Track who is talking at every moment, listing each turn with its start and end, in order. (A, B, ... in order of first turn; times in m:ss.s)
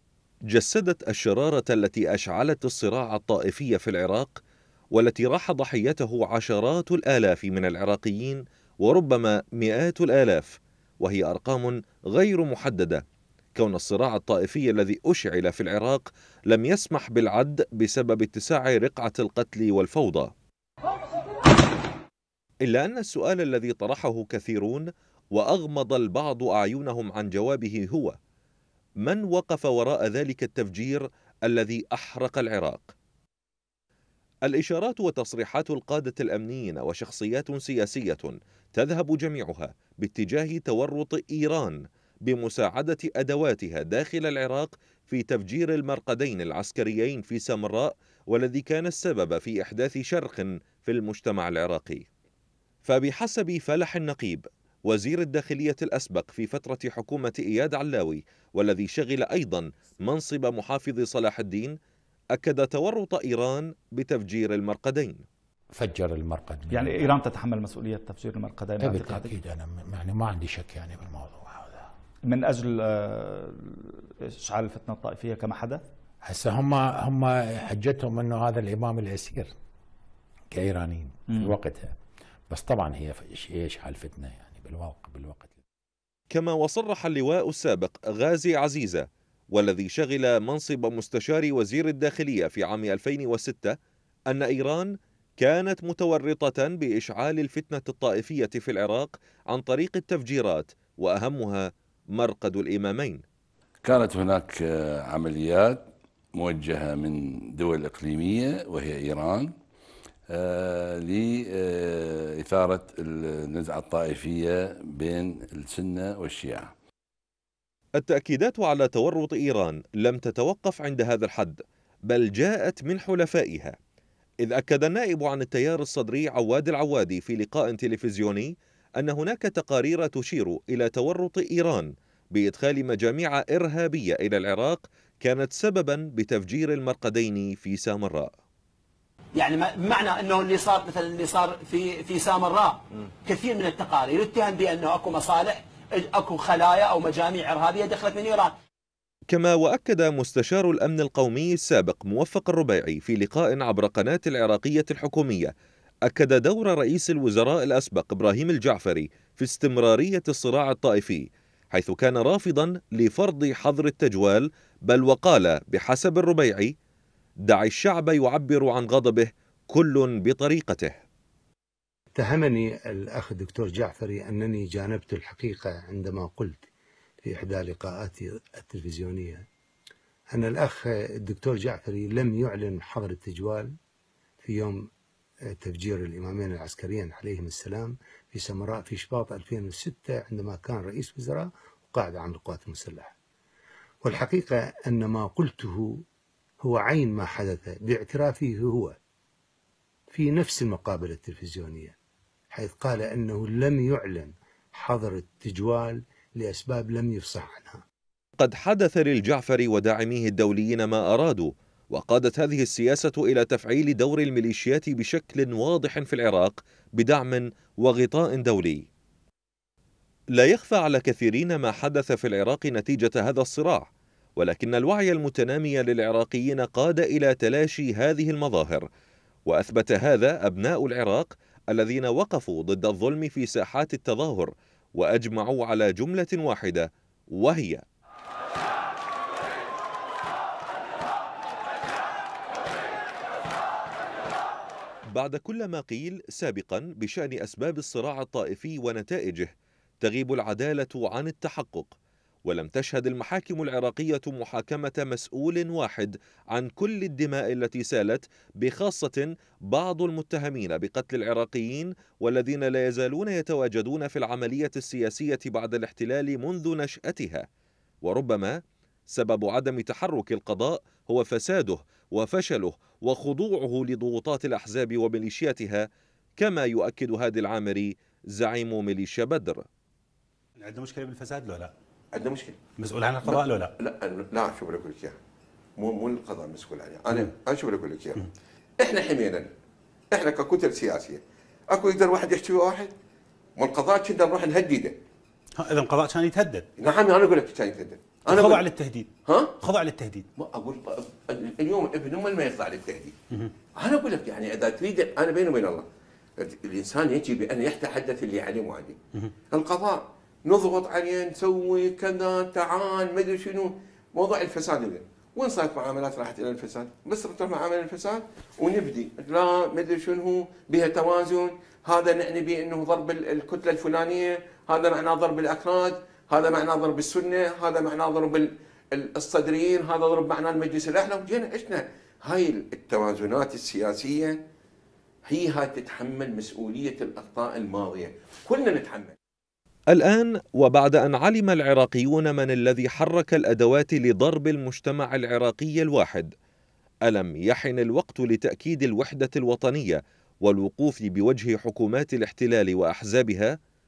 0:00.5-0:04.4 A
0:05.0-0:13.0 A
0:13.6-0:20.3 A
0:22.6-0:28.2 A
0:29.0-0:32.9 A
0:34.5-0:52.1 A
0:52.8-1:01.8 A
1:02.4-1:05.3 A
1:05.8-1:07.1 B
1:06.7-1:09.4 C
1:08.8-1:11.9 B
1:12.3-1:15.8 C
1:16.2-1:19.5 B
1:20.5-1:22.0 B
1:22.5-1:25.6 B
1:26.3-1:33.8 A
1:34.3-1:43.2 A
1:43.8-1:49.6 D
1:50.3-1:56.7 D
1:58.0-2:03.8 A
2:04.4-2:18.3 A
2:19.4-2:28.6 E
2:29.3-2:35.5 A
2:36.1-2:46.7 A
2:47.5-2:51.0 A
2:52.2-2:56.7 F
2:57.2-2:59.4 F
3:00.3-3:03.7 F
3:04.4-3:04.8 F
3:05.5-3:13.1 F
3:14.0-3:16.0 F
3:16.6-3:19.0 F
3:20.1-3:22.0 F
3:22.5-3:27.8 F
3:28.4-3:38.9 A
3:40.4-3:48.9 A
3:49.5-3:57.8 A
4:05.1-4:09.5 A
4:10.0-4:12.0 A
4:12.5-4:27.4 A
4:28.0-4:28.6 A
4:29.1-4:35.9 A
4:36.4-4:39.6 A
4:40.6-4:41.7 G
4:42.1-4:42.6 H
4:42.8-4:43.7 G
4:43.2-4:45.2 H
4:45.8-4:48.2 H
4:48.8-4:49.5 H
4:50.1-4:51.2 H
4:51.7-4:52.9 H
4:53.6-4:54.9 H
4:55.6-4:56.7 G
4:56.8-4:58.6 H
4:58.3-4:59.1 G
4:59.6-5:00.3 G
5:00.4-5:03.1 H
5:03.8-5:05.8 H
5:06.4-5:09.0 H
5:09.5-5:34.4 H
5:35.3-5:39.1 H
5:39.9-5:46.3 A
5:47.1-5:53.5 A